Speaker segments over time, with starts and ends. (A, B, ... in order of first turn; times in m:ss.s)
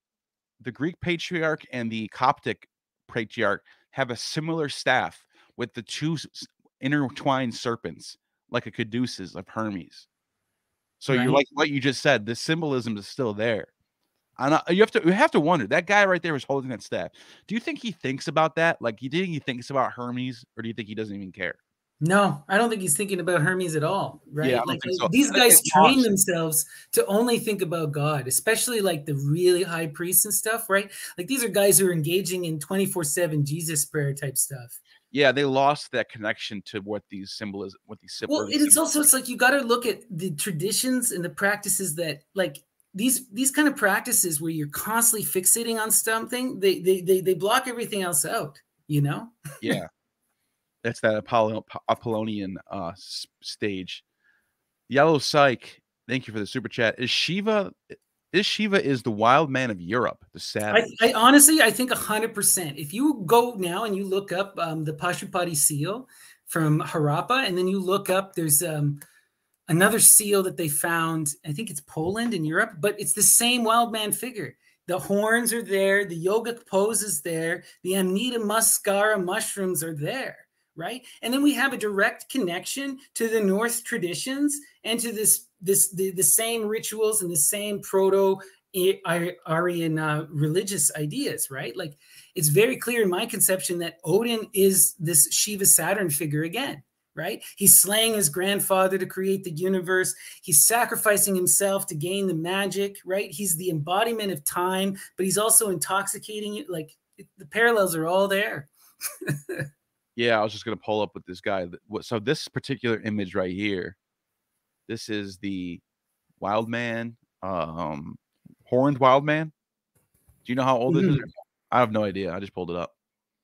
0:00.6-0:10.0 A
0:11.0-0:13.7 A
0:11.1-0:11.4 B
0:14.4-0:21.6 A
0:22.0-0:34.8 B
0:24.4-0:26.1 A
0:35.1-0:38.8 A
0:38.3-0:49.4 B
0:49.6-0:49.9 A
0:50.8-0:54.0 A
0:54.9-1:00.9 A
1:00.7-1:09.0 B
1:09.7-1:48.7 B
1:49.3-1:49.6 B
1:50.2-1:54.0 A
1:54.9-1:55.8 A
1:56.4-1:59.5 A
2:00.4-2:02.9 A
2:00.9-2:01.2 B